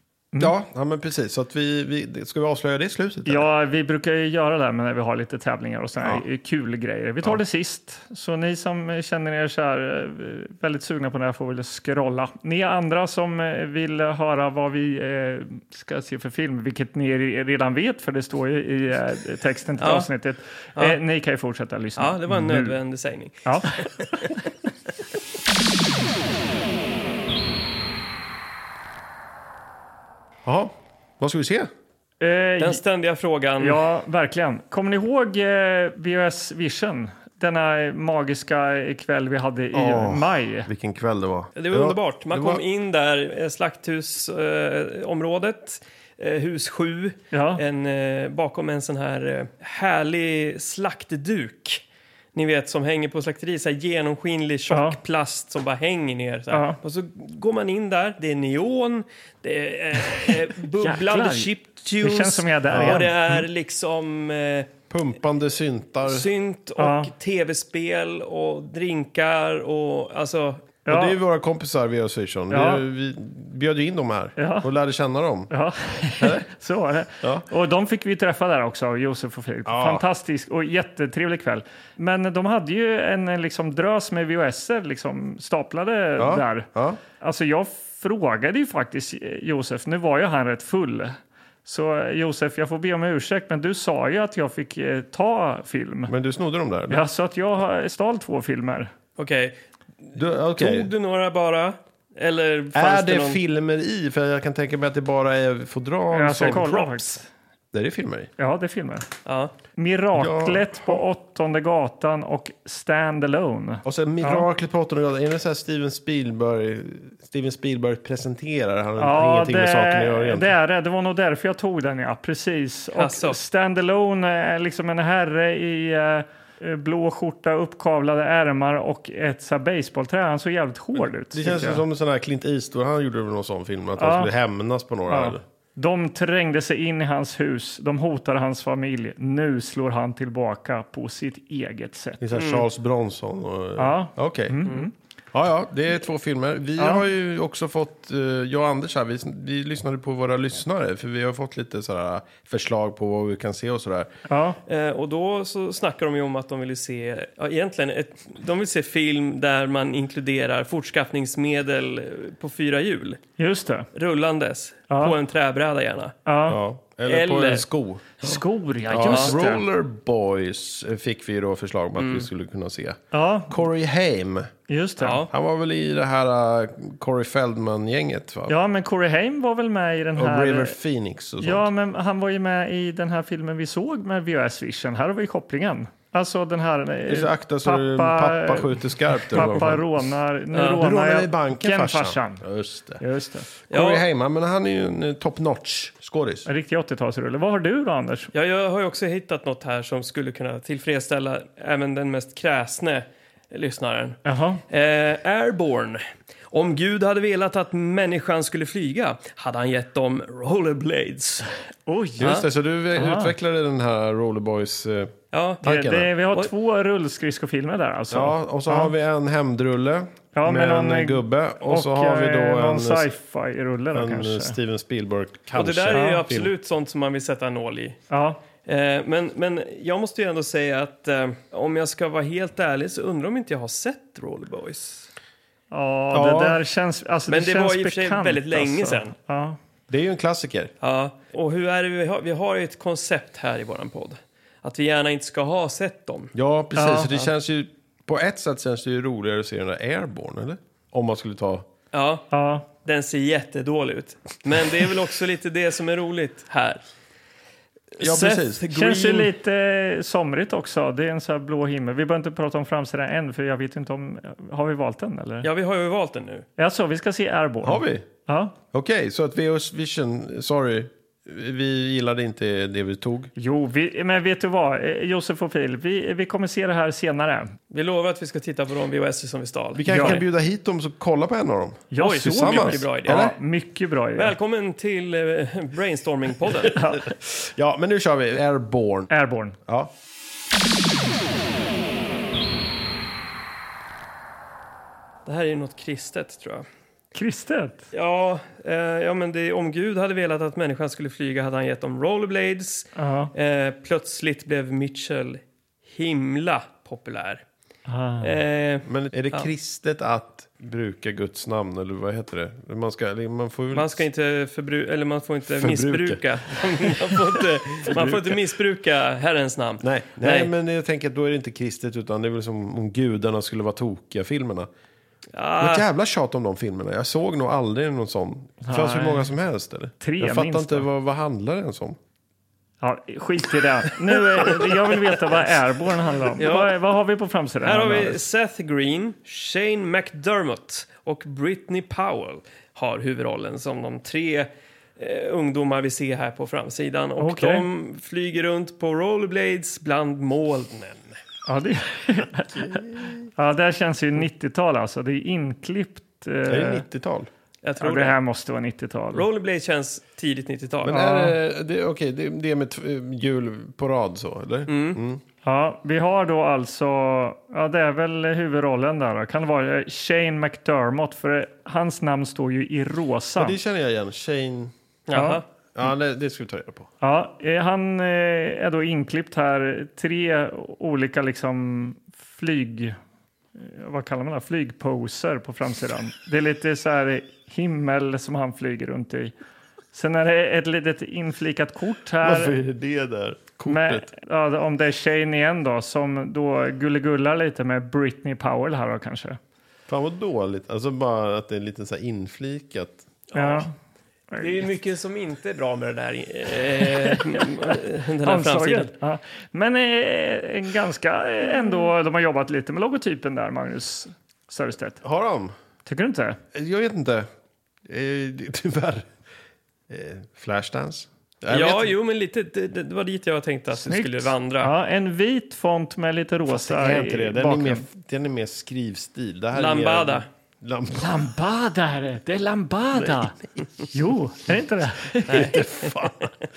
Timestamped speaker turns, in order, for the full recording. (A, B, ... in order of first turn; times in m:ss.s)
0:00.4-0:03.5 A
0:03.3-0:22.8 B
0:19.8-0:20.1 C
0:22.0-0:24.4 C
0:30.4-0:31.7 A
0:32.2-0:32.8 B
0:32.6-0:33.8 C
0:33.6-0:40.7 B
0:39.7-0:42.6 A
0:41.6-0:51.8 C
0:47.3-0:47.6 B
0:52.3-1:04.7 C
0:54.7-0:55.0 B
0:56.5-0:56.8 B
1:00.8-1:03.4 B
1:02.7-1:03.1 A
1:04.9-1:06.3 A
1:06.1-1:10.7 C
1:06.8-1:07.1 B
1:10.9-1:11.2 B
1:10.9-1:15.5 A
1:12.5-1:12.8 B
1:14.4-1:14.7 B
1:15.5-1:26.7 B
1:16.2-1:16.4 A
1:17.2-1:17.5 A
1:19.7-1:20.0 A
1:26.2-1:27.0 A
1:27.2-1:36.1 B
1:36.1-1:37.0 A
1:36.9-1:38.9 B
1:39.2-1:39.6 C
1:40.2-1:40.9 A
1:40.5-1:43.4 C
1:42.7-1:46.8 A
1:46.1-1:47.3 B
1:47.7-1:48.3 A
1:48.4-1:49.1 B
1:49.2-1:49.5 C
1:49.8-1:54.5 B
1:50.2-1:51.0 A
1:53.8-2:00.5 A
1:59.0-2:11.8 B
2:03.0-2:03.4 C
2:11.3-2:15.4 A
2:14.0-2:14.3 B
2:15.1-2:22.2 B
2:22.2-2:24.7 A
2:22.3-2:22.7 C
2:23.8-2:24.9 B
2:25.3-2:34.1 A
2:26.8-2:27.0 B
2:34.3-2:34.6 B
2:34.7-2:43.2 C
2:43.4-2:43.9 B
2:43.9-2:46.2 C
2:44.9-2:45.2 B
2:46.3-2:46.6 B
2:46.5-2:48.0 A
2:47.1-2:47.7 C
2:48.2-2:49.6 B
2:48.9-2:54.5 A
2:52.0-2:52.3 C
2:53.1-2:53.6 B
2:54.7-2:55.2 B
2:55.0-2:55.3 C
2:55.3-2:58.6 A
2:58.5-3:00.8 B
3:00.2-3:01.7 A
3:01.4-3:12.4 B
3:07.1-3:13.0 A
3:10.5-3:10.8 C
3:13.0-3:13.5 B
3:13.6-3:16.5 A
3:13.7-3:14.0 C
3:16.5-3:18.3 B
3:18.3-3:31.5 C
3:24.2-3:24.6 B
3:31.9-3:32.4 B
3:32.2-3:36.1 A
3:32.2-3:32.5 C
3:33.0-3:33.3 B
3:35.3-3:35.6 C
3:35.6-3:38.9 B
3:38.1-3:43.1 A
3:40.4-3:44.6 B
3:43.9-3:46.5 A
3:45.6-3:48.0 C
3:45.9-3:46.2 B
3:48.1-3:48.4 B
3:48.7-3:55.1 C
3:55.7-3:59.6 B
3:56.1-3:56.6 A
3:57.3-3:59.1 C
3:59.9-4:00.7 A
4:00.8-4:06.3 C
4:06.4-4:11.7 A
4:06.8-4:07.1 B
4:11.9-4:16.8 C
4:12.3-4:12.7 B
4:18.0-4:19.3 C
4:18.0-4:18.6 A
4:18.7-4:25.5 B
4:25.4-4:26.5 C
4:26.6-4:28.6 B
4:27.6-4:28.1 A
4:28.7-4:33.3 A
4:33.4-4:37.6 B
4:37.7-4:40.2 C
4:39.8-4:43.4 A
4:39.9-4:40.2 B
4:41.9-4:44.3 B
4:42.0-4:43.3 C
4:44.2-4:46.8 C
4:46.7-4:47.1 B
4:47.1-4:49.1 A
4:49.1-4:49.6 B
4:49.7-4:49.9 A
4:55.3-4:56.7 C
4:57.2-4:57.8 B
4:57.9-5:07.4 C
5:03.0-5:03.3 B
5:07.9-5:08.4 B
5:08.2-5:09.5 C
5:08.9-5:14.0 A
5:13.7-5:20.5 C
5:15.5-5:16.2 A
5:16.8-5:18.4 A
5:19.8-5:24.7 A
5:25.3-5:25.9 C
5:25.6-5:32.0 A
5:28.6-5:29.3 B
5:30.0-5:30.9 B
5:32.8-5:38.2 B
5:36.4-5:36.7 C
5:37.6-5:51.2 C
5:47.2-5:47.7 B
5:51.5-5:52.8 B
5:52.6-5:53.3 A
5:53.4-5:56.9 B
5:56.5-5:57.3 A
5:57.6-5:58.2 C
5:57.8-5:59.2 B
5:59.1-6:01.1 C
6:00.8-6:05.2 A
6:00.9-6:01.3 B
6:04.7-6:05.0 C
6:05.4-6:13.6 B
6:13.4-6:14.7 A
6:15.1-6:15.4 C
6:15.1-6:15.4 B
6:15.8-6:16.9 A
6:17.0-6:23.0 B
6:23.6-6:29.3 B
6:29.9-6:32.6 B
6:32.2-6:34.1 A
6:33.7-6:39.4 B
6:39.9-6:43.1 A
6:43.3-6:43.7 C
6:43.4-6:43.7 B
6:44.3-6:44.7 B
6:44.4-6:48.9 C
6:47.0-6:55.0 B
6:55.0-6:55.5 A
6:55.9-6:56.4 B
6:56.5-6:57.3 A
6:57.9-6:59.1 A
6:59.9-7:01.9 A
7:01.5-7:04.7 C
7:03.8-7:07.8 B
7:06.5-7:11.3 A
7:09.5-7:10.3 C
7:11.0-7:13.4 B
7:13.0-7:13.4 A
7:13.9-7:15.5 B
7:15.3-7:16.3 A
7:15.3-7:16.1 C